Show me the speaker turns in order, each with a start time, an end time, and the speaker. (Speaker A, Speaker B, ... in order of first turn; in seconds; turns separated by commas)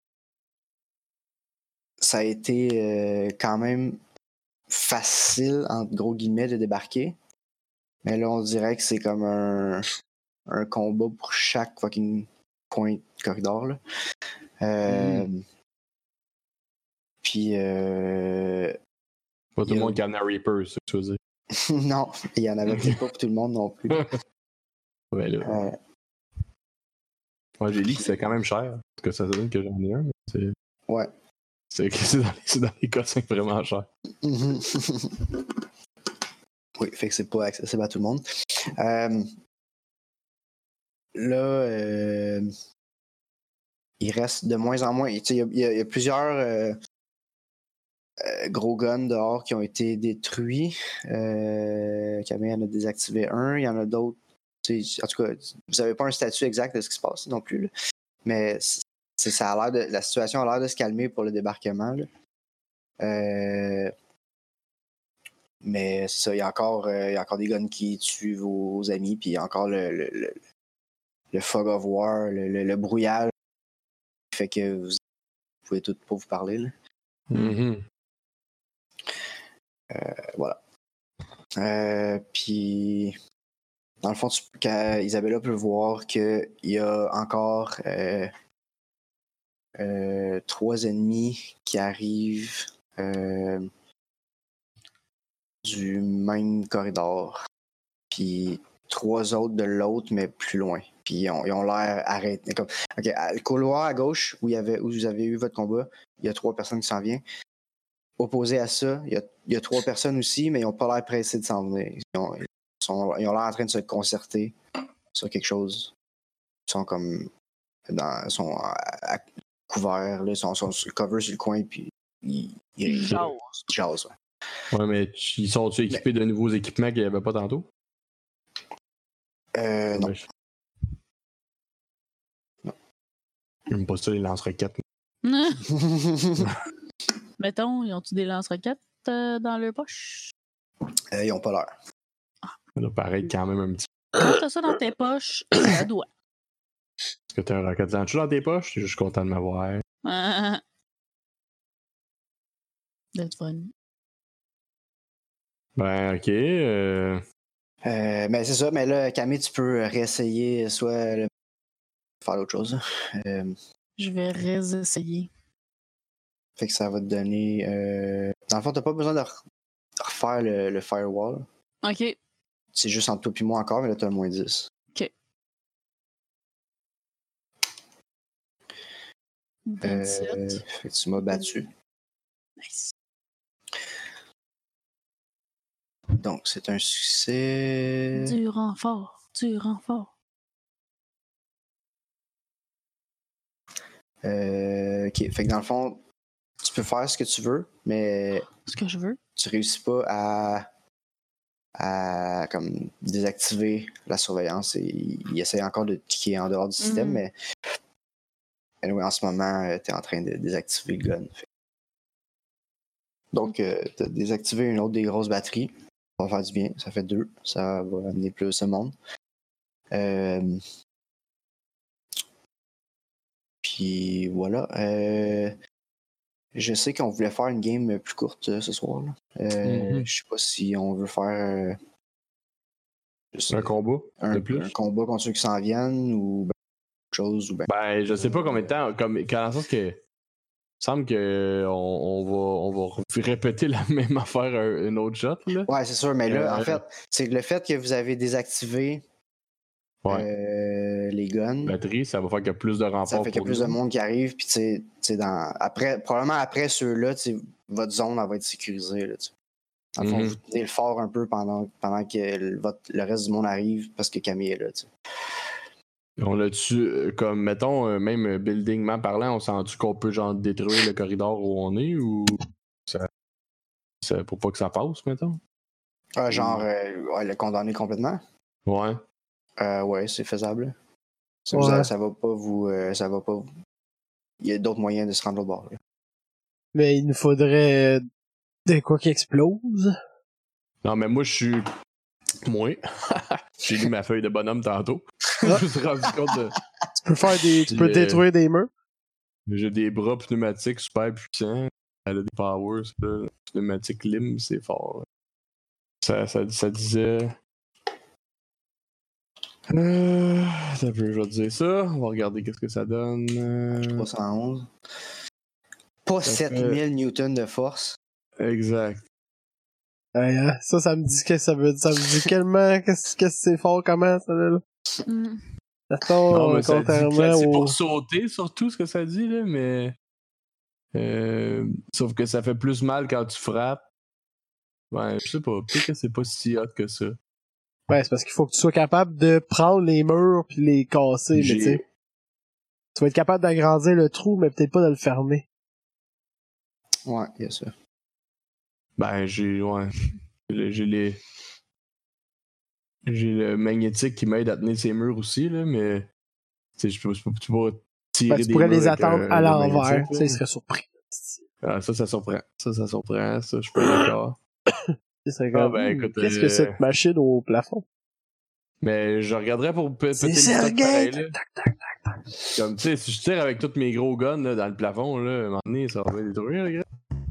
Speaker A: 2.0-4.0, Speaker A: 4.7-7.2, Speaker A: 8.0-9.8, Speaker A: 10.5-13.8, Speaker A: 14.6-15.4, Speaker B: 14.9-15.3, Speaker A: 17.2-18.7, Speaker B: 19.6-21.2, Speaker A: 19.6-20.0, Speaker A: 21.5-24.1, Speaker B: 22.7-23.0, Speaker B: 25.1-25.6, Speaker A: 25.4-25.8, Speaker B: 27.6-30.5, Speaker A: 27.8-28.3, Speaker B: 31.7-33.9, Speaker A: 34.2-36.2, Speaker A: 36.8-38.2, Speaker A: 38.8-39.3, Speaker A: 41.1-42.5, Speaker A: 44.0-46.8, Speaker A: 48.2-57.7, Speaker A: 58.2-62.1, Speaker A: 63.0-63.9, Speaker A: 65.6-70.4, Speaker A: 71.3-73.3, Speaker A: 74.3-75.0, Speaker A: 75.6-76.7, Speaker B: 77.3-77.8, Speaker A: 79.9-80.6, Speaker A: 81.6-83.2, Speaker A: 84.0-88.3, Speaker A: 89.8-93.7, Speaker A: 95.6-97.4, Speaker A: 98.1-107.2, Speaker A: 108.2-114.5, Speaker A: 115.1-115.9, Speaker A: 116.7-117.3, Speaker A: 117.9-124.1, Speaker C: 122.8-123.6, Speaker B: 124.7-127.7, Speaker A: 129.5-130.2, Speaker B: 129.9-130.2, Speaker B: 133.7-134.8, Speaker C: 135.2-135.7, Speaker A: 135.7-136.6, Speaker C: 137.4-140.3, Speaker A: 141.1-141.7, Speaker B: 142.8-143.9, Speaker C: 144.2-146.1, Speaker B: 147.3-149.8, Speaker C: 150.0-150.6, Speaker C: 153.1-153.7, Speaker B: 155.8-157.2, Speaker A: 157.8-161.3, Speaker A: 162.2-163.5, Speaker C: 164.0-165.3, Speaker A: 166.6-169.4, Speaker A: 170.0-171.4, Speaker C: 171.8-172.2, Speaker A: 172.7-174.7, Speaker C: 179.7-180.6, Speaker A: 179.8-181.7, Speaker C: 182.6-182.9, Speaker A: 183.7-184.0, Speaker A: 186.2-188.4, Speaker C: 188.1-190.1, Speaker A: 194.2-196.0, Speaker A: 196.6-198.5, Speaker C: 198.6-199.2, Speaker A: 199.3-200.7, Speaker A: 201.8-207.3, Speaker C: 206.8-207.2, Speaker A: 208.8-211.4, Speaker A: 213.3-218.9, Speaker A: 219.9-220.6, Speaker A: 223.6-225.6, Speaker A: 226.5-231.8, Speaker B: 229.6-230.1, Speaker A: 233.3-236.5, Speaker B: 233.5-234.7, Speaker A: 237.1-238.7, Speaker B: 237.7-240.0, Speaker B: 240.8-245.7, Speaker A: 245.7-249.0, Speaker B: 246.3-246.8, Speaker A: 250.1-251.8, Speaker B: 251.6-253.8, Speaker A: 253.1-259.3, Speaker A: 259.9-265.5, Speaker B: 260.0-260.4, Speaker B: 266.2-273.1, Speaker B: 274.0-275.4, Speaker A: 276.2-278.2, Speaker B: 276.3-276.6, Speaker B: 278.6-279.0, Speaker A: 279.6-280.7, Speaker A: 281.4-283.5, Speaker D: 281.5-281.9, Speaker A: 284.4-285.8, Speaker D: 286.7-288.0, Speaker D: 288.6-289.9, Speaker B: 290.8-291.7, Speaker B: 292.4-296.6, Speaker D: 297.0-298.7, Speaker B: 297.7-298.2, Speaker B: 299.5-305.1, Speaker B: 306.0-307.4, Speaker B: 309.7-314.1, Speaker A: 313.8-314.7, Speaker A: 316.0-318.0, Speaker B: 316.2-316.8, Speaker B: 318.4-319.0, Speaker D: 320.1-324.6, Speaker C: 325.0-325.4, Speaker D: 325.9-327.8, Speaker B: 326.3-329.9, Speaker B: 330.9-333.8, Speaker B: 334.9-337.2, Speaker D: 337.9-341.8, Speaker B: 341.3-341.8, Speaker D: 342.9-345.4, Speaker A: 347.1-347.7, Speaker B: 349.0-349.9, Speaker B: 350.5-351.2, Speaker B: 353.1-356.1, Speaker B: 356.8-360.4, Speaker D: 358.3-361.4, Speaker B: 361.6-364.4, Speaker D: 363.8-364.1, Speaker D: 364.7-367.8, Speaker B: 365.5-366.8, Speaker B: 368.8-371.3, Speaker D: 370.2-372.2, Speaker B: 372.5-376.9